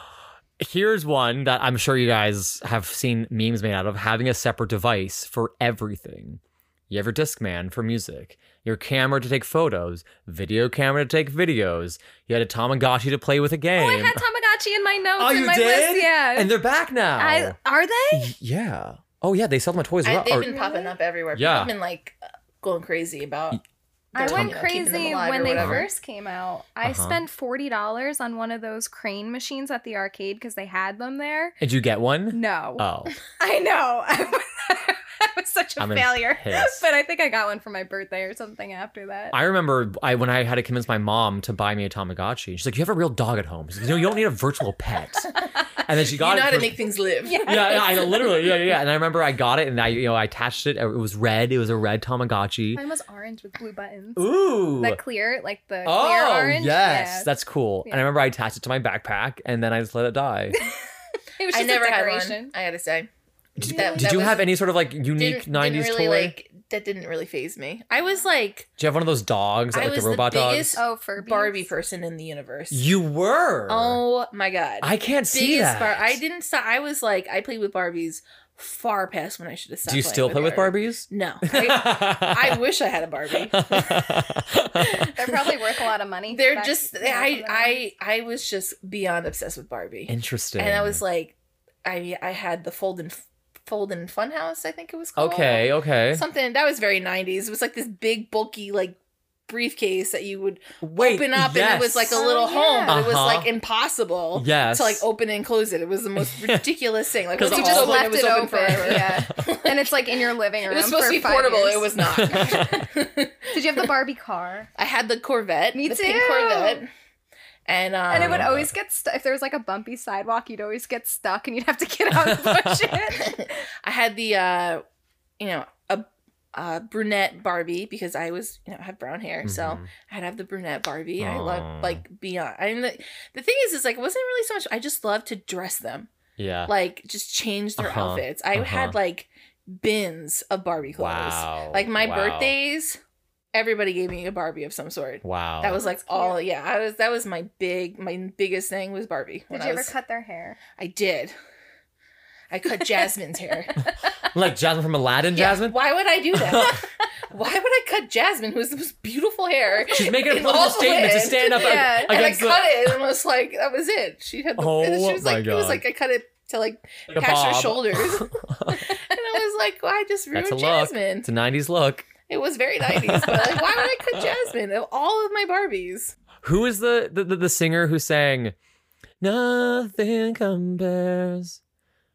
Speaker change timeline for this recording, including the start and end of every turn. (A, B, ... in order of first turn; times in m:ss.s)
0:00.6-0:14.2 A
0:13.8-0:16.5 B
0:15.2-0:17.6 A
0:17.2-0:18.3 B
0:18.1-0:20.5 A
0:20.0-0:23.6 C
0:20.4-0:20.9 B
0:21.3-0:21.7 A
0:24.1-0:25.9 C
0:24.1-0:31.6 B
0:25.5-0:25.8 A
0:26.8-0:27.2 A
0:31.6-0:33.1 A
0:32.3-0:39.4 B
0:35.8-0:36.8 A
0:39.3-0:45.3 A
0:45.8-0:46.8 A
0:46.1-0:47.4 C
0:47.2-0:48.6 B
0:47.4-0:52.8 A
0:52.7-0:57.3 B
0:54.2-0:55.0 A
0:55.8-1:00.6 A
1:01.4-1:02.5 B
1:01.5-1:04.5 C
1:03.6-1:06.4 A
1:03.6-1:04.3 B
1:05.2-1:08.7 C
1:08.8-1:10.8 A
1:09.7-1:12.8 C
1:10.8-1:11.7 B
1:12.7-1:14.0 A
1:13.7-1:24.2 C
1:14.8-1:16.2 A
1:19.8-1:22.6 A
1:23.5-1:25.0 A
1:24.9-1:25.5 C
1:25.0-1:27.8 B
1:26.3-1:53.9 C
1:30.1-1:31.0 A
1:35.2-1:36.2 A
1:40.8-1:42.2 A
1:42.1-1:43.0 B
1:42.9-1:43.5 A
1:44.3-1:45.0 A
1:46.2-1:46.7 A
1:47.3-1:48.1 A
1:47.4-1:52.6 B
1:48.8-1:49.3 A
1:52.0-1:52.9 A
1:53.5-1:54.7 B
1:54.8-1:56.9 C
1:55.7-1:56.8 B
1:57.6-1:58.5 C
1:58.1-2:03.6 B
1:58.1-1:58.7 A
2:02.1-2:03.0 A
2:03.1-2:04.8 C
2:05.4-2:16.1 C
2:09.4-2:09.9 A
2:11.2-2:12.0 A
2:16.4-2:16.7 A
2:16.7-2:23.0 C
2:17.8-2:19.0 A
2:21.0-2:22.5 A
2:23.5-2:29.9 C
2:25.2-2:25.8 A
2:25.8-2:26.4 B
2:29.5-2:30.6 B
2:30.8-2:31.3 C
2:32.5-2:33.7 C
2:34.3-2:35.8 A
2:35.3-2:51.3 C
2:36.3-2:36.8 A
2:39.9-2:42.9 A
2:41.5-2:42.2 B
2:44.6-2:45.8 A
2:47.1-2:49.0 A
2:50.3-2:52.1 A
2:52.3-2:56.1 C
2:52.9-2:54.3 A
2:56.4-2:58.5 A
2:59.2-3:01.6 A